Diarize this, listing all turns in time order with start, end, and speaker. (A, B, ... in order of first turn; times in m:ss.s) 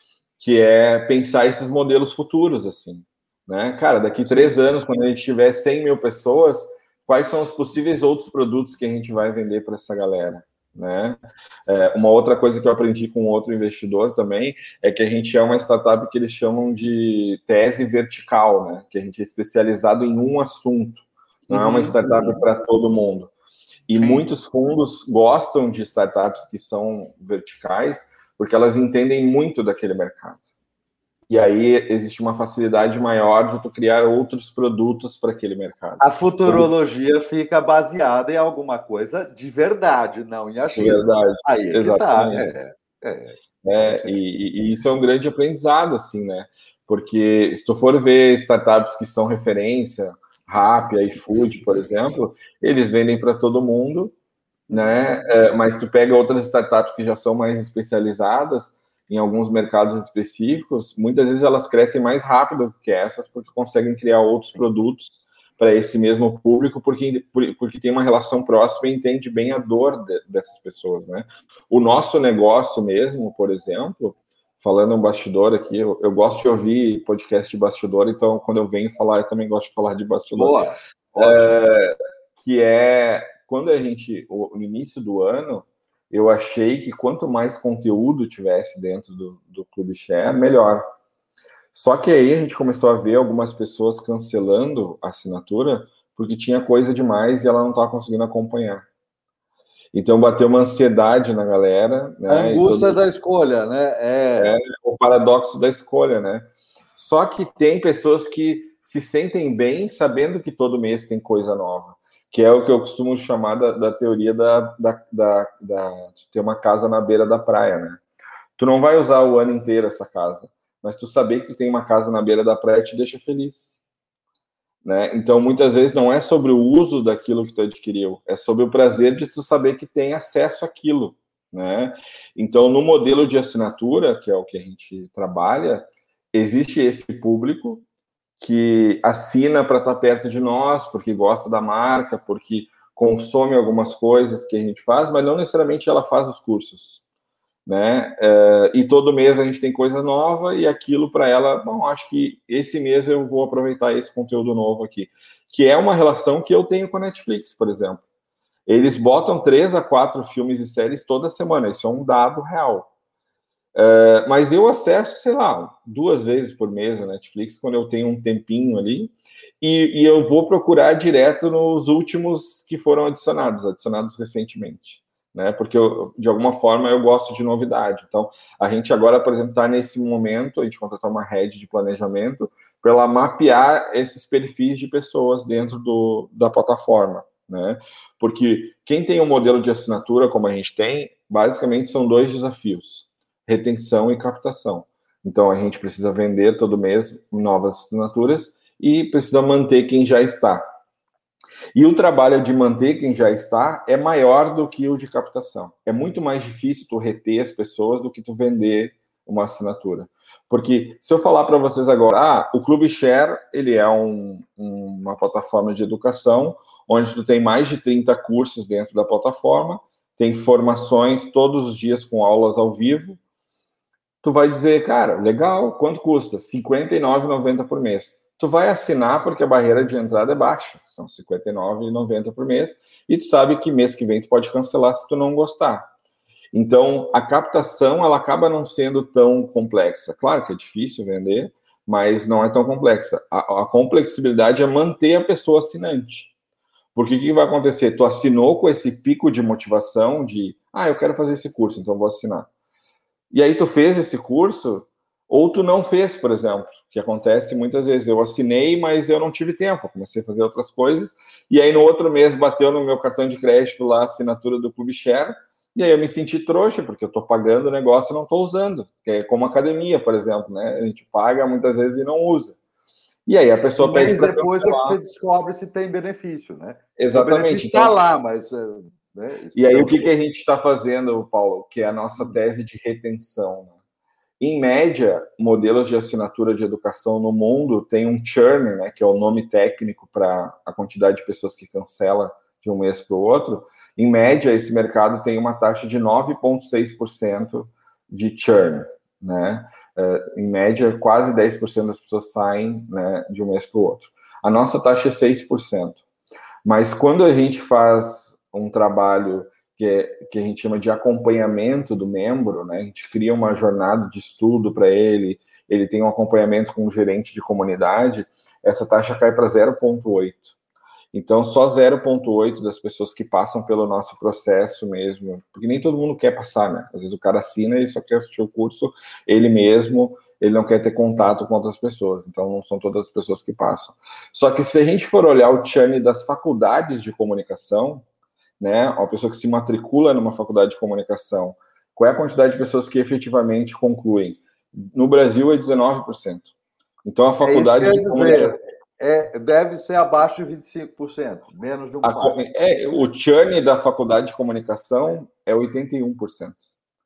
0:00.4-0:23.3 A
0:21.5-0:22.4 B
0:23.9-0:30.5 A
0:23.9-0:24.2 B
0:31.3-0:36.7 A
0:36.0-0:44.2 B
0:40.7-0:42.5 A
0:43.6-0:54.2 A
0:54.7-0:55.3 B
0:54.7-1:20.6 A
1:20.3-1:21.6 B
1:21.2-1:30.8 A
1:31.7-1:38.9 A
1:39.9-1:43.0 A
1:42.3-1:44.6 B
1:44.4-1:58.0 A
1:58.6-2:03.8 A
2:04.8-2:17.8 A
2:18.4-2:27.0 A
2:27.7-2:38.0 A
2:38.7-2:42.9 A
2:43.8-3:20.6 A
3:21.7-3:43.2 A
3:44.2-3:55.9 A
3:56.5-4:06.3 A
4:07.0-4:12.5 A
4:13.3-4:32.6 A
4:33.3-4:35.0 A
4:33.8-4:40.1 B
4:37.0-4:38.0 A
4:39.6-4:43.8 A
4:44.4-5:06.0 A
5:06.6-5:20.6 A
5:21.1-5:38.1 A
5:38.6-5:46.5 A
5:47.0-5:48.6 A
5:47.4-5:52.4 B
5:52.0-5:56.6 A